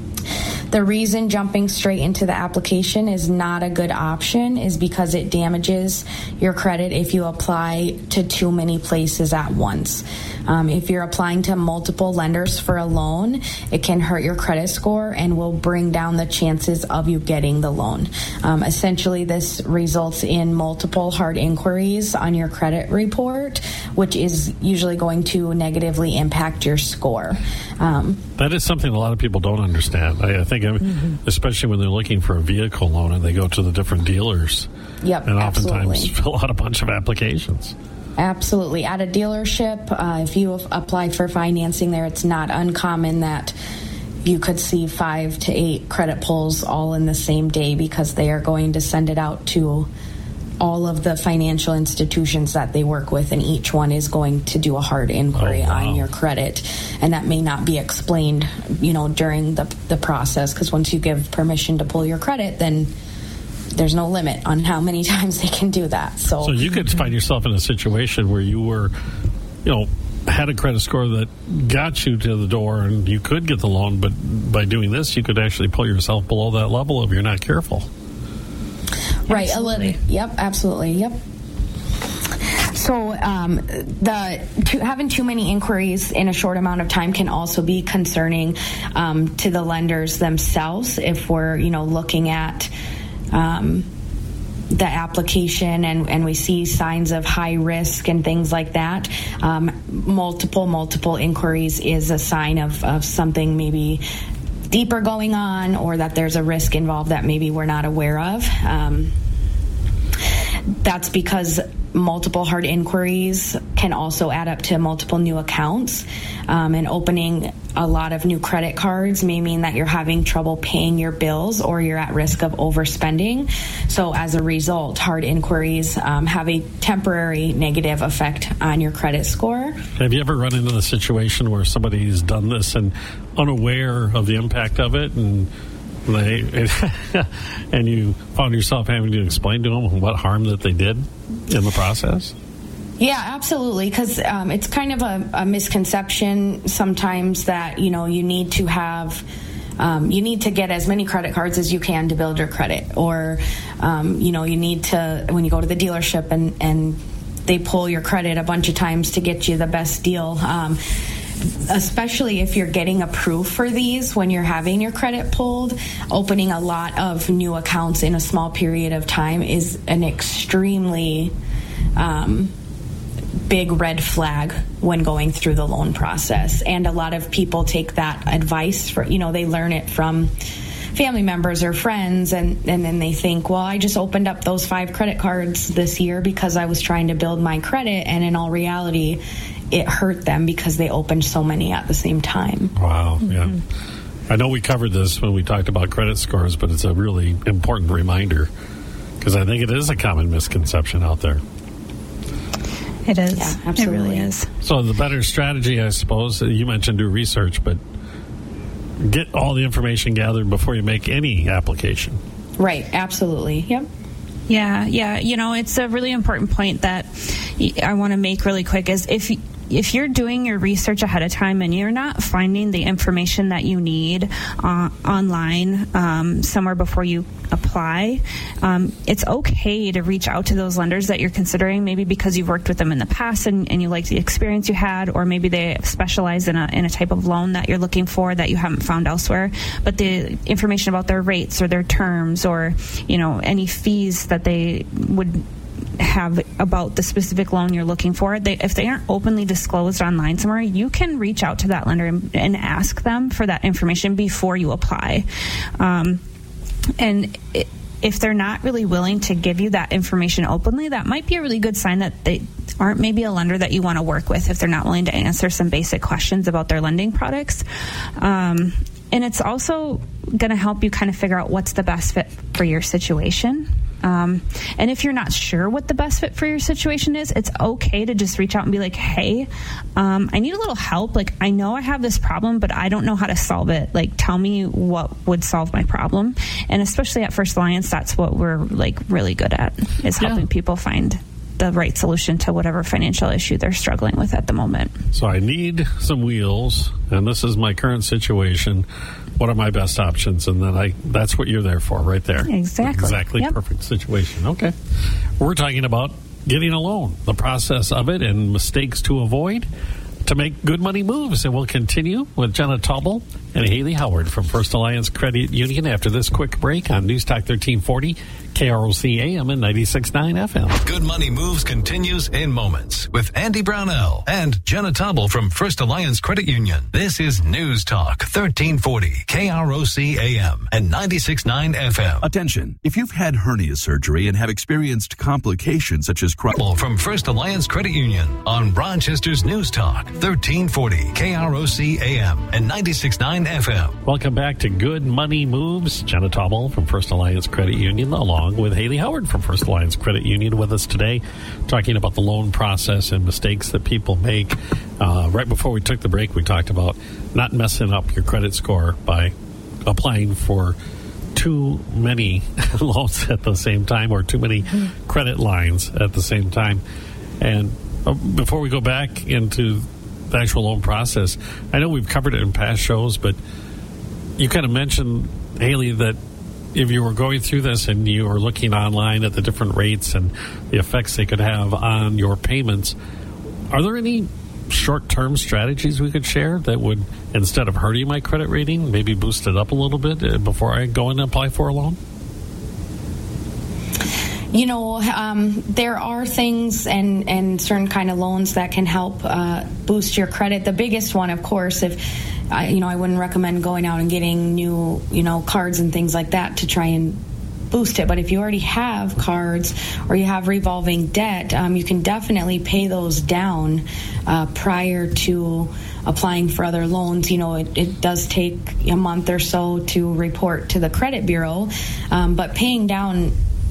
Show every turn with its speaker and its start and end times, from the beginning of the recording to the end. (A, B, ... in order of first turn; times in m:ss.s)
0:00.7-0:28.2 A
0:28.4-0:34.7 B
0:35.0-0:36.1 A
0:35.2-0:37.7 B
0:38.2-0:43.5 A
0:44.2-0:49.9 A
0:50.6-1:02.9 A
0:55.3-0:56.0 B
1:03.8-1:06.7 A
1:06.4-1:08.9 B
1:09.6-1:17.9 B
1:19.3-1:21.2 A
1:19.3-1:20.0 C
1:22.5-1:32.7 A
1:33.3-1:33.9 A
1:34.7-1:44.0 A
1:44.7-1:49.1 A
1:50.8-2:09.8 A
2:10.0-2:15.5 B
2:16.0-2:22.3 B
2:23.0-2:29.2 A
2:29.8-2:40.8 A
2:41.4-2:51.3 A
2:52.0-2:52.5 A
2:53.5-3:00.3 A
3:00.9-3:12.7 A
3:12.8-3:13.6 B
3:14.3-3:18.5 B
3:19.2-3:21.4 B
3:23.0-3:24.5 C
3:23.3-3:24.3 A
3:24.6-3:27.8 B
3:29.0-3:32.2 B
3:32.6-3:33.9 A
3:34.5-4:05.4 C
4:06.0-4:15.2 C
4:15.8-4:16.2 C
4:17.0-4:27.6 C
4:28.2-4:54.9 C
4:55.1-4:58.8 B
4:59.4-5:04.7 B
5:02.5-5:03.5 C
5:05.4-5:09.7 B
5:10.2-5:20.8 B
5:20.8-5:32.2 D
5:32.2-5:36.6 E
5:36.5-5:44.0 D
5:44.0-5:59.3 B
5:59.8-6:00.8 B
6:01.3-6:06.8 B
6:07.4-6:13.4 B
6:14.4-6:16.2 B
6:16.7-6:22.9 B
6:23.7-6:32.0 B
6:34.5-6:47.2 A
6:47.7-7:03.3 A